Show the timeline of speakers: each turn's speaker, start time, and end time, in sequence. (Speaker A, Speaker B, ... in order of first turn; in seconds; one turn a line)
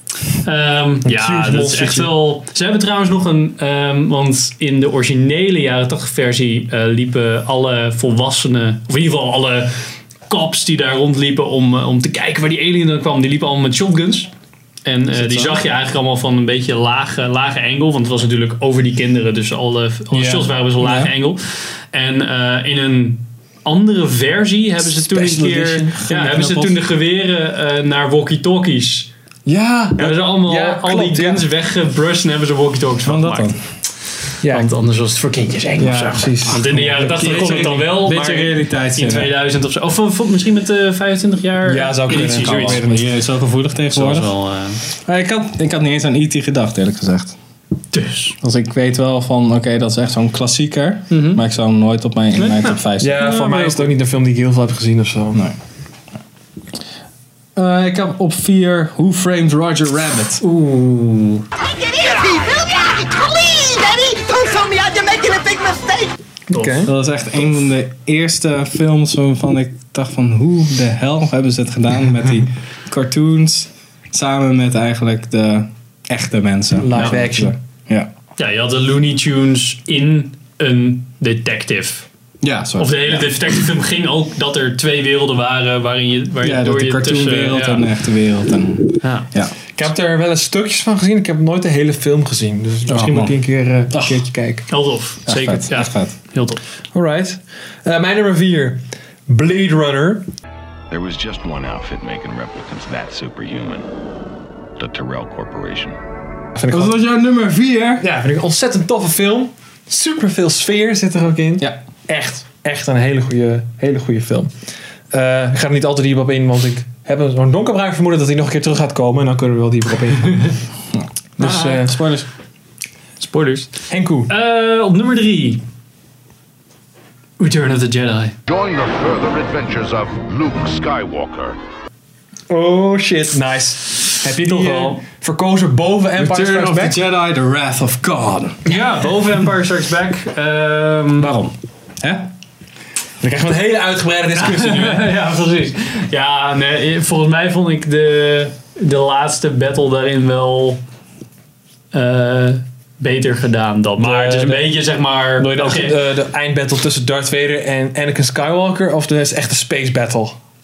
Speaker A: 0.3-14.3
Speaker B: 1.0-2.1
Speaker A: 14.8-29.1
Speaker C: 15.1-15.6
Speaker B: 20.1-20.5
Speaker C: 20.8-21.1
Speaker C: 25.1-26.8
Speaker B: 25.4-25.8
Speaker B: 29.4-31.4
Speaker A: 30.0-33.5
Speaker C: 33.0-33.6
Speaker A: 34.4-42.8
Speaker B: 34.4-34.7
Speaker B: 35.8-38.5
Speaker C: 36.5-39.3
Speaker B: 41.6-43.1
Speaker C: 42.1-47.4
Speaker A: 43.9-44.8
Speaker A: 47.9-48.4
Speaker C: 48.4-53.3
Speaker A: 51.1-51.4
Speaker A: 52.3-53.9
Speaker B: 53.0-55.4
Speaker C: 57.5-60.4
Speaker A: 60.4-61.5
Speaker D: 61.6-66.1
Speaker B: 66.5-66.9
Speaker A: 66.5-66.8
Speaker C: 66.8-78.1
Speaker B: 76.8-77.5
Speaker A: 78.4-82.1
Speaker C: 82.4-83.6
Speaker A: 82.8-87.8
Speaker C: 86.4-89.5
Speaker A: 89.0-89.3
Speaker B: 89.8-94.7
Speaker C: 92.9-94.3
Speaker A: 94.7-96.6
Speaker C: 95.3-96.1
Speaker B: 96.9-100.2
Speaker E: 100.9-103.9
Speaker E: 104.8-106.0
Speaker B: 106.5-106.9
Speaker C: 106.7-108.0
Speaker B: 108.0-114.5
Speaker B: 115.1-120.6
Speaker C: 120.9-122.3
Speaker B: 121.4-122.0
Speaker A: 121.4-121.7
Speaker A: 123.2-123.8
Speaker B: 123.9-124.3
Speaker A: 124.3-125.6
Speaker A: 127.4-128.3
Speaker F: 128.4-131.6
Speaker B: 132.5-137.0
Speaker A: 134.2-135.0
Speaker C: 136.2-138.6
Speaker A: 138.7-141.3
Speaker C: 141.2-142.3
Speaker B: 143.2-145.1
Speaker A: 144.4-150.8
Speaker A: 151.9-155.9
Speaker B: 154.0-154.8
Speaker B: 155.4-160.4